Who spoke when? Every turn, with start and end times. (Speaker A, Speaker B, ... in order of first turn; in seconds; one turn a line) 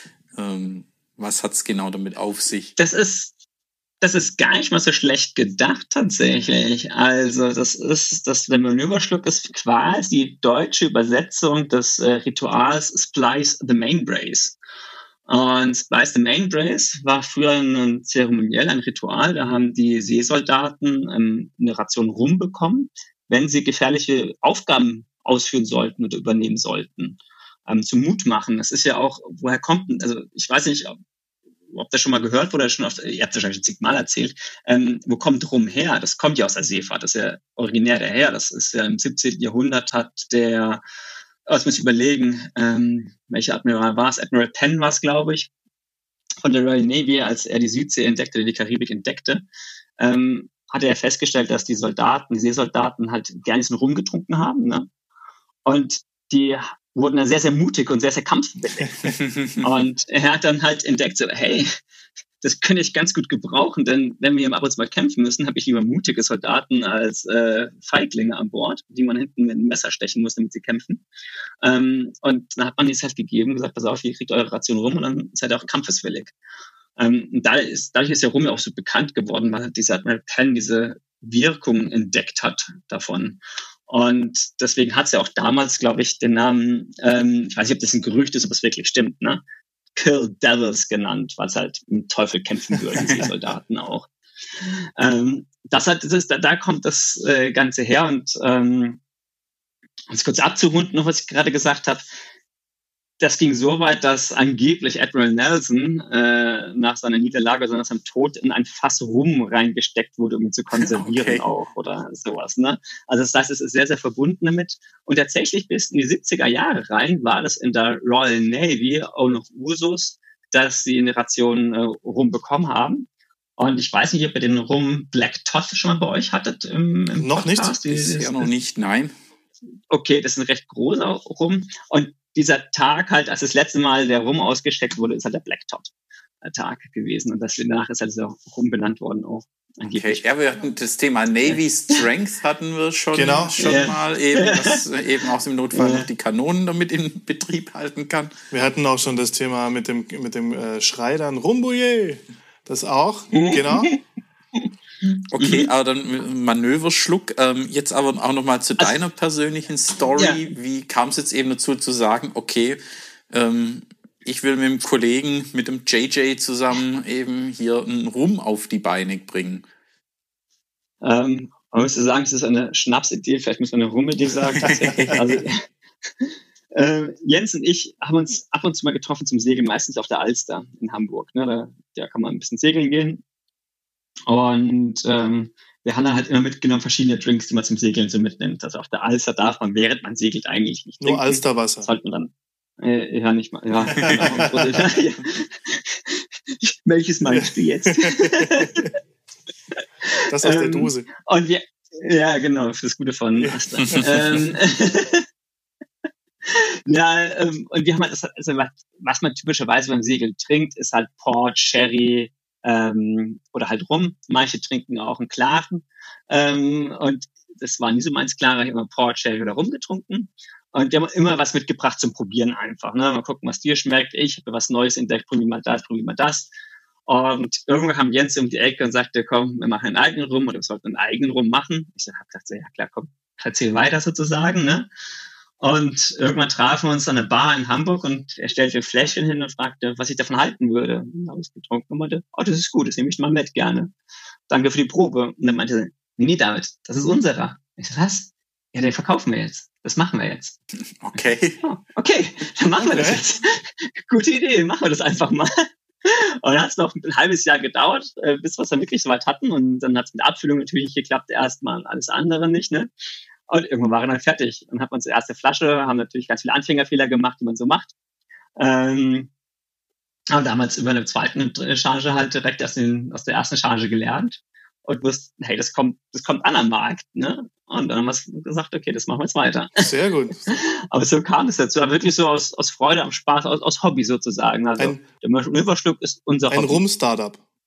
Speaker A: 0.4-2.7
Speaker B: 2.8-3.3
Speaker B: 4.0-14.6
Speaker B: 15.3-31.0
Speaker B: 31.7-40.8
Speaker B: 41.5-45.5
Speaker B: 46.4-49.5
Speaker B: 50.0-54.9
Speaker B: 55.6-61.7
Speaker A: 59.0-59.6
Speaker B: 62.4-71.0
Speaker B: 71.6-76.3
Speaker B: 77.0-89.4
Speaker B: 90.0-94.1
Speaker B: 94.6-99.0
Speaker B: 100.1-102.1
Speaker B: 103.2-123.1
Speaker A: 110.8-111.5
Speaker B: 123.6-128.5
Speaker C: 127.2-127.8
Speaker A: 127.9-129.1
Speaker B: 129.9-135.9
Speaker B: 136.4-140.2
Speaker A: 139.9-148.3
Speaker B: 141.5-142.0
Speaker C: 143.1-143.6
Speaker B: 143.6-144.8
Speaker B: 145.7-146.1
Speaker C: 148.5-153.9
Speaker B: 153.3-154.0
Speaker A: 155.3-162.8
Speaker B: 155.4-155.7
Speaker B: 160.2-160.4
Speaker A: 163.3-169.6
Speaker B: 171.0-175.7
Speaker A: 174.6-175.2
Speaker B: 176.2-183.2
Speaker B: 184.3-198.9
Speaker C: 191.0-191.9
Speaker A: 193.9-194.5
Speaker C: 194.0-194.7
Speaker C: 197.3-198.9
Speaker B: 200.0-205.3
Speaker C: 200.3-201.1
Speaker A: 203.8-204.4
Speaker B: 206.4-226.5
Speaker B: 227.1-234.9
Speaker B: 235.6-243.9
Speaker B: 244.5-250.6
Speaker A: 251.0-251.6
Speaker B: 251.6-262.9
Speaker C: 252.8-253.2
Speaker B: 263.5-267.9
Speaker B: 268.6-269.3
Speaker B: 270.3-279.9
Speaker C: 279.8-280.6
Speaker B: 280.5-286.8
Speaker C: 284.8-285.0
Speaker C: 286.5-287.4